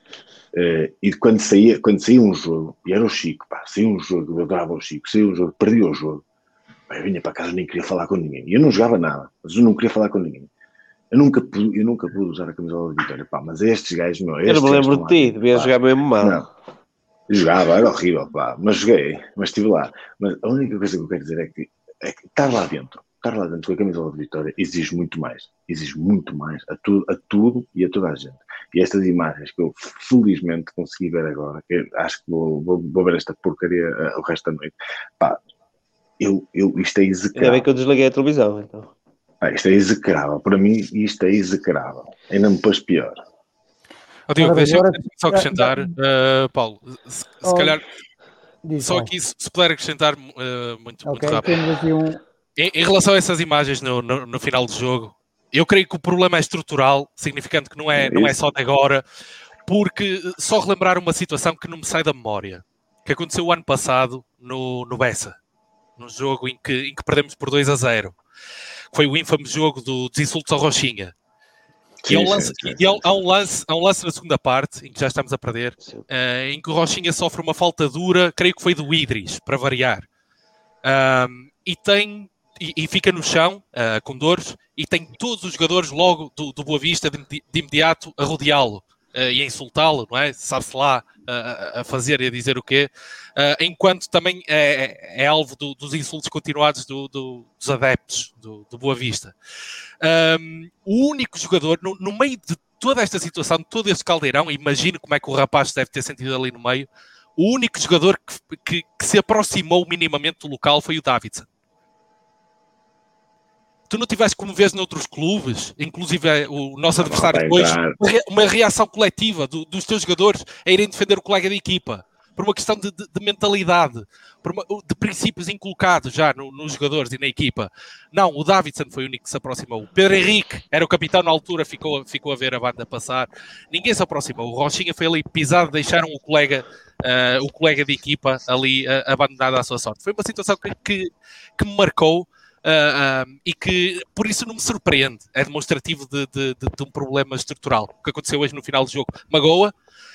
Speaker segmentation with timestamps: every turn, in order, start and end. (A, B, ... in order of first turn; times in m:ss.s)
0:00.5-0:06.2 A
0:06.9-0:10.5 A
0:11.1-0:16.5 A
0:14.5-0:16.5 B
0:17.3-0:35.4 A
0:36.2-0:37.6 A
0:37.3-0:38.9 B
0:39.4-0:43.2 A
0:44.3-0:47.8 C
0:44.4-0:45.9 D
0:47.4-0:47.8 D
0:48.6-0:49.1 D
0:48.8-0:51.6 C
0:51.0-0:52.2 D
0:52.6-0:59.0 C
0:57.9-0:58.4 A
0:59.7-1:05.4 C
1:06.0-1:08.2 C
1:08.9-1:11.1 C
1:12.0-1:12.8 A
1:12.1-1:20.1 C
1:20.8-1:39.4 C
1:40.0-1:51.5 C
1:53.9-2:29.7 C
1:57.0-1:58.0 A